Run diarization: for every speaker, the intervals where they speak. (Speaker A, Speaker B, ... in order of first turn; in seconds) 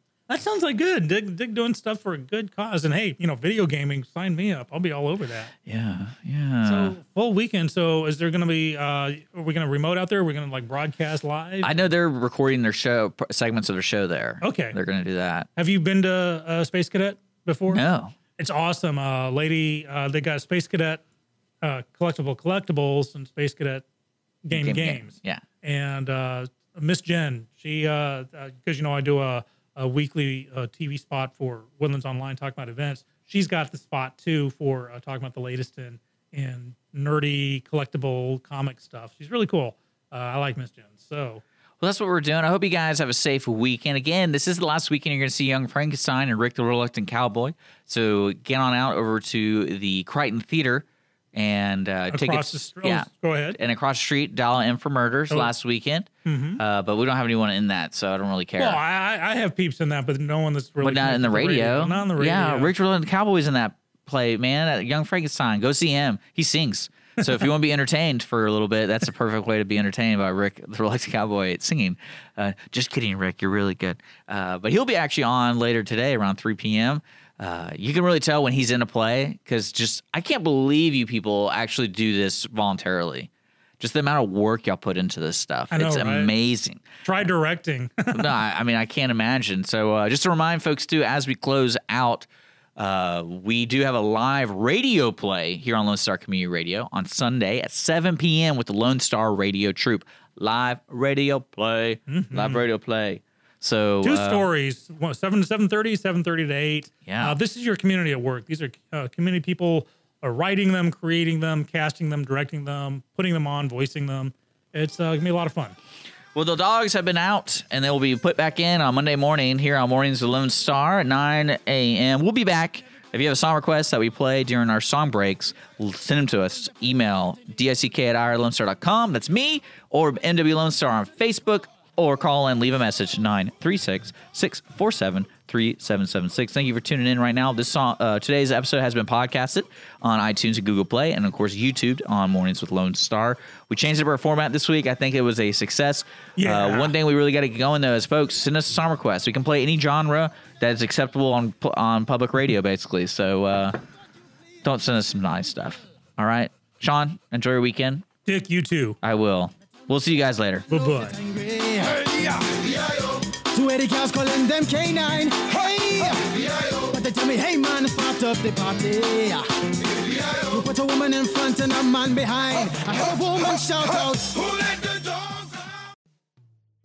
Speaker A: 0.3-5.5, 6.6-11.8, 14.4-14.8, 15.6-17.8, 18.4-21.0, 21.6-23.8, 24.4-41.4, 52.1-53.6, 56.2-56.6, 58.6-62.7, 85.7-86.3, 87.0-88.3, 102.1-102.6, 104.0-115.8, 146.4-146.9, 158.2-159.0, 160.7-161.2
Speaker B: 5.7-7.0, 11.6-15.5, 17.7-18.1, 24.5-25.4, 41.8-58.8, 60.8-86.9, 88.1-104.5, 107.1-107.4, 116.3-153.8, 154.6-158.1, 159.0-160.7
Speaker C: 160.7-174.6